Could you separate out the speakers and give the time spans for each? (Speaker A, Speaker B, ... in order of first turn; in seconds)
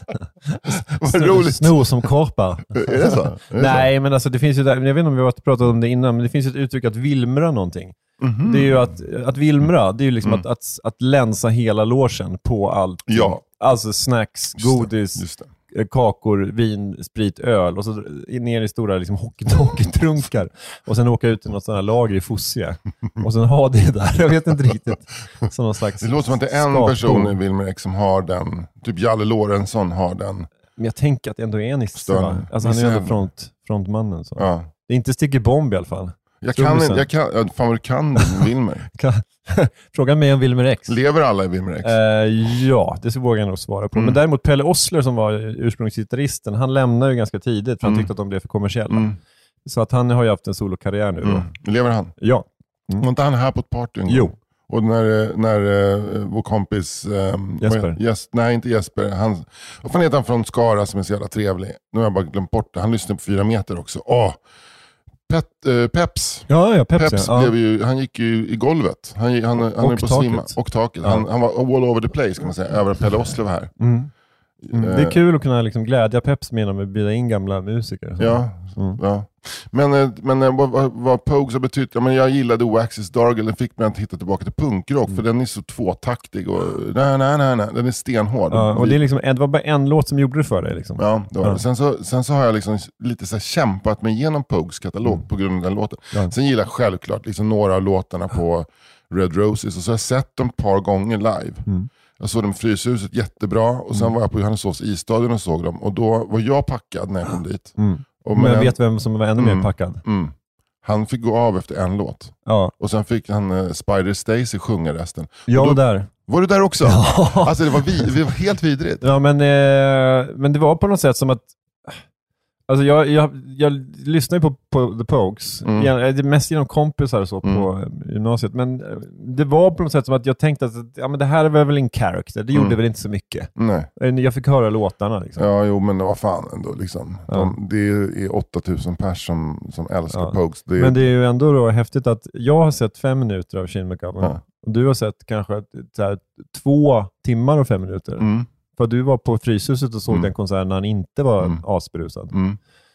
Speaker A: 0.5-27.4, 30.8-37.1, 39.0-41.0, 41.8-49.1, 49.6-51.5, 52.2-53.1, 54.1-54.4, 57.6-58.0, 66.5-67.5, 69.6-71.3, 73.8-74.1, 74.7-79.0, 88.5-91.6, 107.8-110.0, 112.5-112.7, 115.5-116.1, 116.8-118.1, 119.0-122.0, 122.7-135.5, 137.3-137.6, 140.1-152.3
Speaker B: 0.9-1.8, 2.7-3.9, 8.2-8.9, 13.1-13.4, 14.6-15.5, 26.0-30.5, 32.0-33.2, 34.4-34.7, 36.4-38.9, 40.9-42.0, 43.9-44.2, 47.8-48.1, 48.9-49.2, 51.2-52.1, 53.0-64.4, 65.3-73.7, 74.6-75.2, 78.2-89.0, 91.0-101.7, 102.2-108.8, 109.4-119.0, 125.6-125.9, 132.5-132.8, 133.6-133.9, 135.4-141.1, 148.2-148.5, 152.3-152.6